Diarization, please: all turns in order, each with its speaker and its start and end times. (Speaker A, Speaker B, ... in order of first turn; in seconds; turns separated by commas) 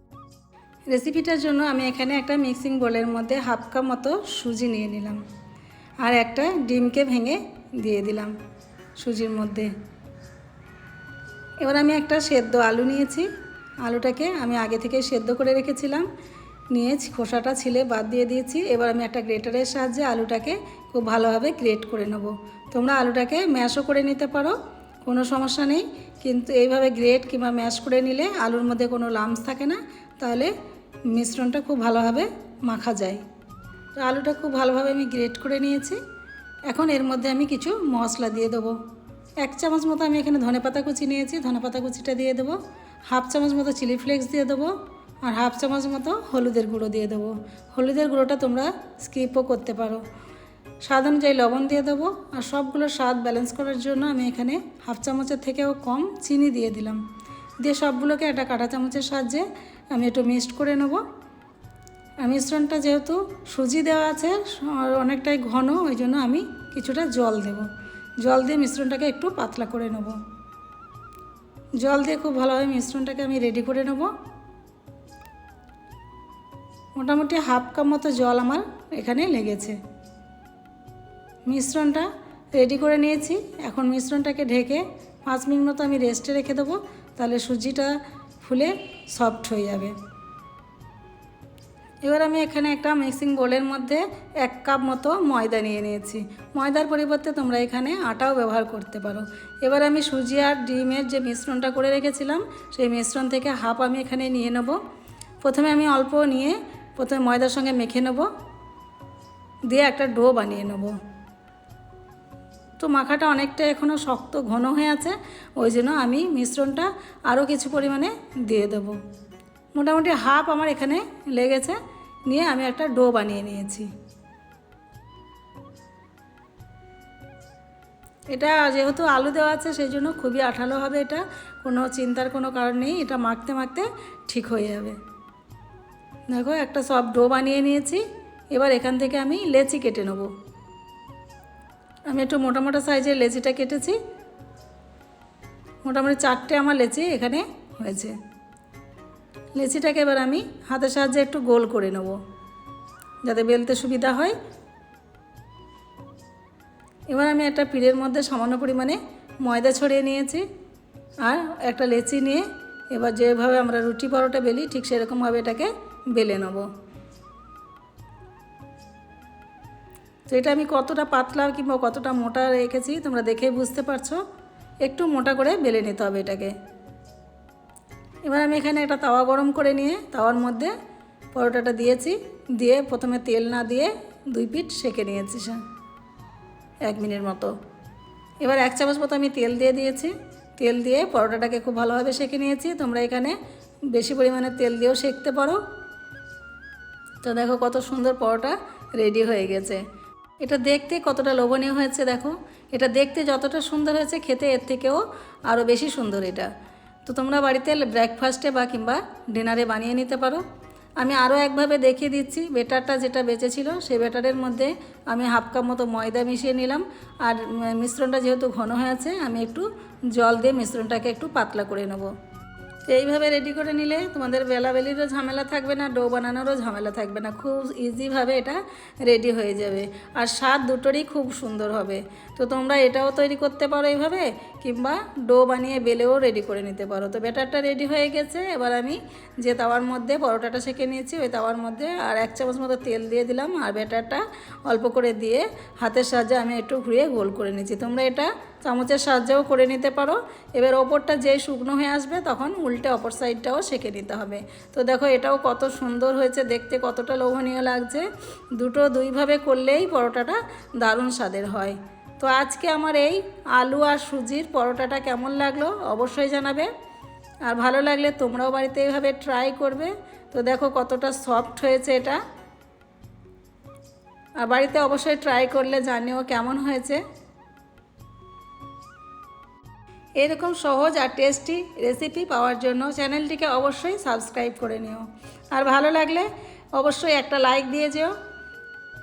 Speaker A: 0.9-5.2, Speaker A: 6.0-8.3, Speaker A: 9.0-9.7, Speaker A: 11.6-13.3, Speaker A: 13.8-16.1, Speaker A: 16.7-30.5, Speaker A: 31.1-33.2, Speaker A: 34.0-36.0, Speaker A: 36.7-38.8, Speaker A: 39.4-42.6, Speaker A: 43.1-50.0, Speaker A: 50.8-57.0, Speaker A: 57.6-61.0, Speaker A: 62.2-67.7, Speaker A: 68.2-70.2, Speaker A: 71.8-74.1, Speaker A: 77.0-79.8, Speaker A: 81.5-90.0, Speaker A: 92.0-104.8, Speaker A: 105.4-108.3, Speaker A: 109.7-110.9, Speaker A: 112.8-119.0, Speaker A: 119.7-123.9, Speaker A: 128.3-135.0, Speaker A: 136.3-140.3, Speaker A: 142.1-144.0, Speaker A: 145.8-148.1, Speaker A: 149.5-152.2, Speaker A: 153.2-154.4, Speaker A: 157.1-160.4, Speaker A: 161.2-166.7, Speaker A: 170.3-174.2, Speaker A: 174.8-176.5, Speaker A: 178.2-180.7, Speaker A: 181.3-185.6, Speaker A: 186.8-187.5, Speaker A: 188.4-193.4, Speaker A: 193.9-195.6, Speaker A: 197.2-199.8, Speaker A: 200.4-206.5, Speaker A: 207.1-210.4, Speaker A: 211.0-222.1, Speaker A: 222.9-266.7, Speaker A: 267.4-272.2, Speaker A: 274.4-277.0, Speaker A: 280.2-288.1